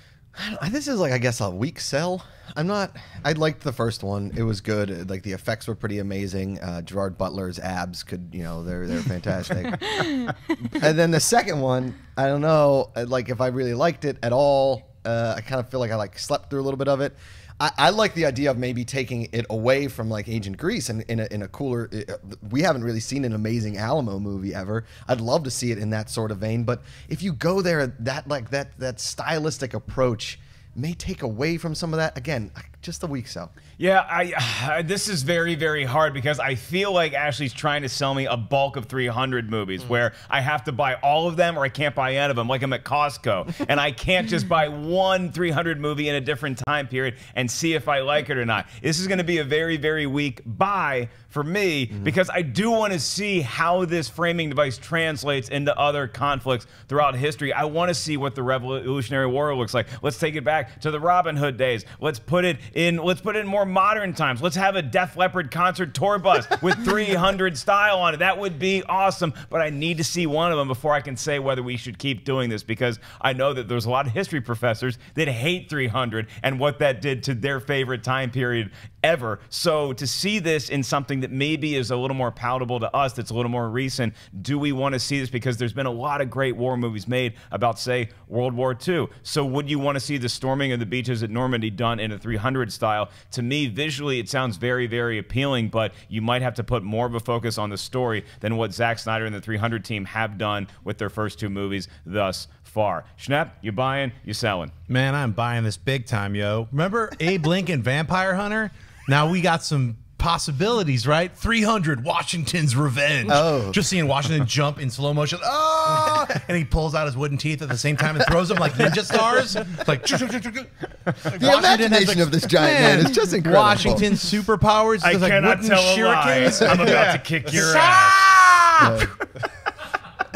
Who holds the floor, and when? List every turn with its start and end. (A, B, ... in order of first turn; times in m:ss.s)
0:00.4-0:33.5 A
0:33.8-1:44.7 B
1:44.9-2:09.1 C
1:53.3-1:53.8 A
2:01.3-2:04.0 A
2:05.0-2:08.3 B
2:08.8-2:09.1 A